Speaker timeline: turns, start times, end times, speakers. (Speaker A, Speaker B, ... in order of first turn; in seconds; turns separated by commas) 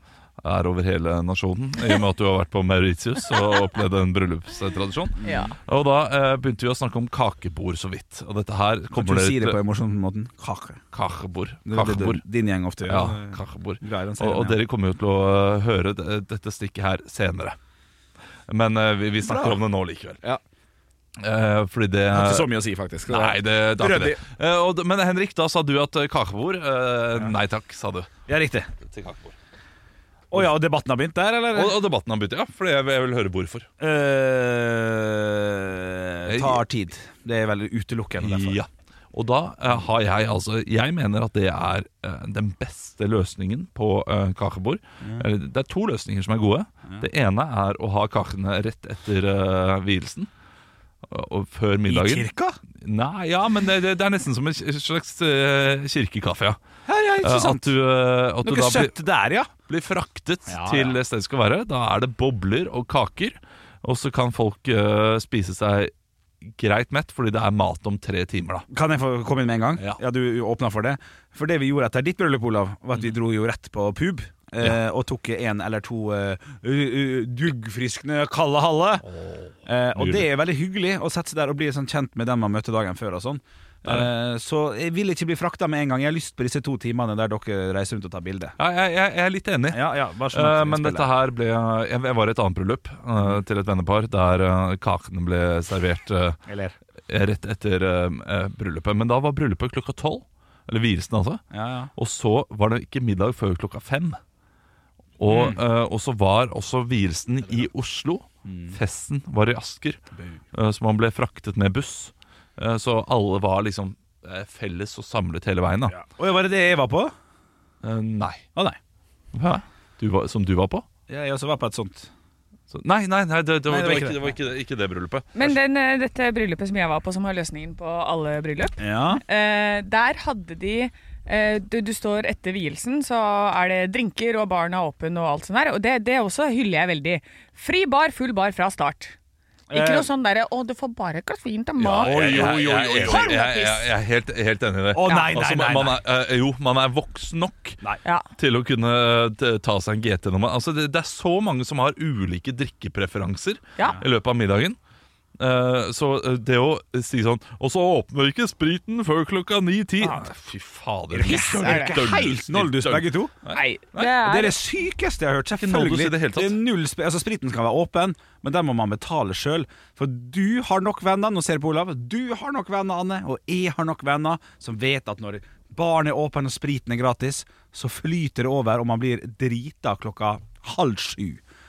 Speaker A: 0.4-9.6, Speaker B: 5.2-5.5, Speaker C: 5.2-5.5, Speaker B: 8.9-10.8, Speaker A: 10.9-12.2, Speaker B: 11.7-14.6, Speaker A: 12.8-17.6, Speaker A: 18.5-20.2, Speaker B: 19.2-19.6, Speaker A: 21.2-22.5, Speaker B: 22.1-24.2, Speaker A: 23.1-28.1, Speaker B: 28.3-28.7, Speaker A: 28.9-29.4, Speaker B: 30.3-31.8, Speaker A: 31.5-33.7, Speaker B: 33.8-38.6, Speaker A: 36.3-36.6, Speaker A: 38.2-50.3, Speaker A: 51.1-52.3, Speaker B: 51.9-52.6, Speaker A: 52.8-56.6, Speaker B: 56.9-57.8, Speaker A: 57.2-59.0, Speaker B: 58.4-59.5, Speaker A: 59.7-65.9, Speaker B: 60.5-61.0, Speaker A: 66.4-68.7, Speaker B: 68.7-79.0, Speaker A: 79.1-80.3, Speaker B: 79.7-88.6, Speaker A: 88.6-96.4, Speaker B: 89.7-91.1, Speaker B: 96.5-96.8, Speaker A: 97.1-101.4, Speaker B: 101.5-101.9, Speaker A: 102.0-104.2, Speaker A: 105.2-110.0, Speaker B: 105.3-105.6, Speaker B: 108.5-108.8, Speaker A: 110.5-116.0, Speaker B: 115.9-117.1, Speaker A: 117.8-118.4, Speaker A: 119.3-120.9, Speaker B: 121.1-122.1, Speaker A: 122.7-125.5, Speaker B: 123.7-124.3, Speaker C: 125.3-139.2, Speaker B: 128.8-129.2, Speaker B: 139.7-140.1, Speaker C: 139.7-143.8, Speaker A: 141.8-147.8, Speaker B: 142.0-143.5, Speaker B: 144.9-146.0, Speaker A: 148.4-154.8, Speaker A: 155.4-164.2, Speaker B: 161.1-163.4, Speaker C: 161.2-162.2, Speaker C: 163.5-164.5, Speaker B: 164.1-181.4, Speaker A: 165.6-166.6